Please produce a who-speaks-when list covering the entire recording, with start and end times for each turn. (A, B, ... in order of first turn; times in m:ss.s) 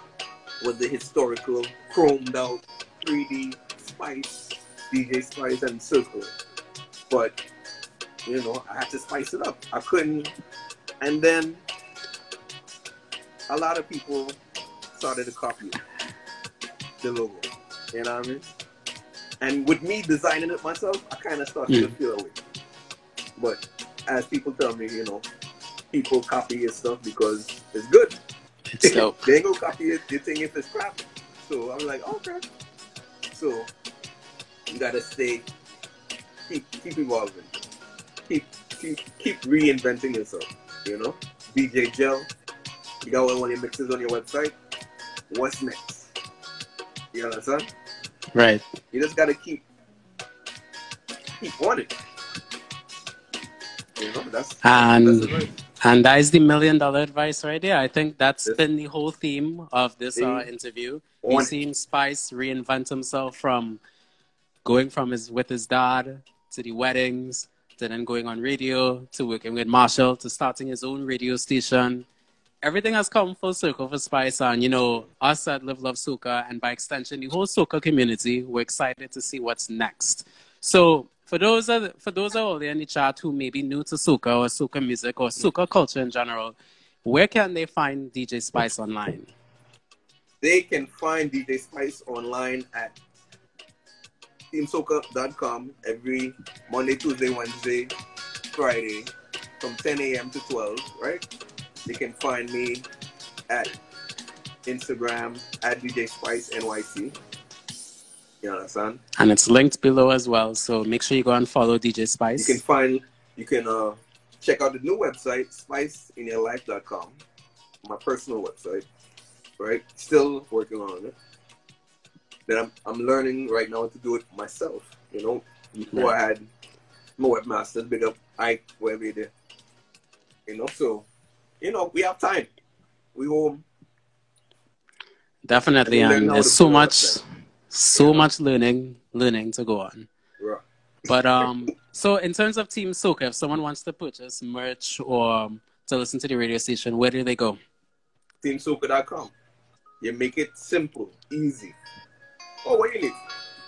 0:00.6-0:06.3 A
0:07.1-0:07.4 A
0:08.3-0:10.3 A
0:11.0-0:11.6 A
0:13.5-0:14.4 A
0:14.9-0:15.8 A
0:17.0-0:18.5 A
0:19.4-0:22.4 A
0:21.7-0:21.9 B
0:23.4-0:25.2 A
0:25.9-0:28.2 A
0:28.7-0:29.2 B
0:28.8-0:32.4 A
0:33.3-0:33.7 A
0:34.7-0:35.5 A
0:36.5-0:37.5 A
0:38.3-0:42.3 A
0:43.0-0:44.6 A
0:45.3-0:46.1 A
0:47.1-0:47.7 A
0:48.3-0:48.6 B
0:48.9-0:49.6 A
0:51.4-0:51.9 A
0:54.0-0:55.5 A
0:54.6-1:03.8 B
1:00.2-1:00.5 A
1:01.2-1:01.5 A
1:04.6-1:12.1 B
1:12.6-1:29.3 B
1:30.4-1:33.0 A
1:34.5-1:37.9 A
1:38.5-1:41.2 A
1:41.9-1:42.9 A
1:44.6-1:47.2 A
1:48.4-1:49.0 A
1:49.2-1:52.6 B
1:52.4-1:57.2 A
1:57.8-1:58.9 A
1:59.6-2:01.1 A
2:02.5-2:06.5 A
2:07.2-2:09.3 A
2:10.5-2:11.1 A
2:11.6-2:12.5 A
2:13.1-2:13.6 A
2:15.4-2:20.1 B
2:15.9-2:17.2 A
2:18.0-2:18.3 A
2:21.1-2:27.6 B
2:28.4-2:29.3 A
2:30.0-2:31.8 A
2:32.6-2:33.2 A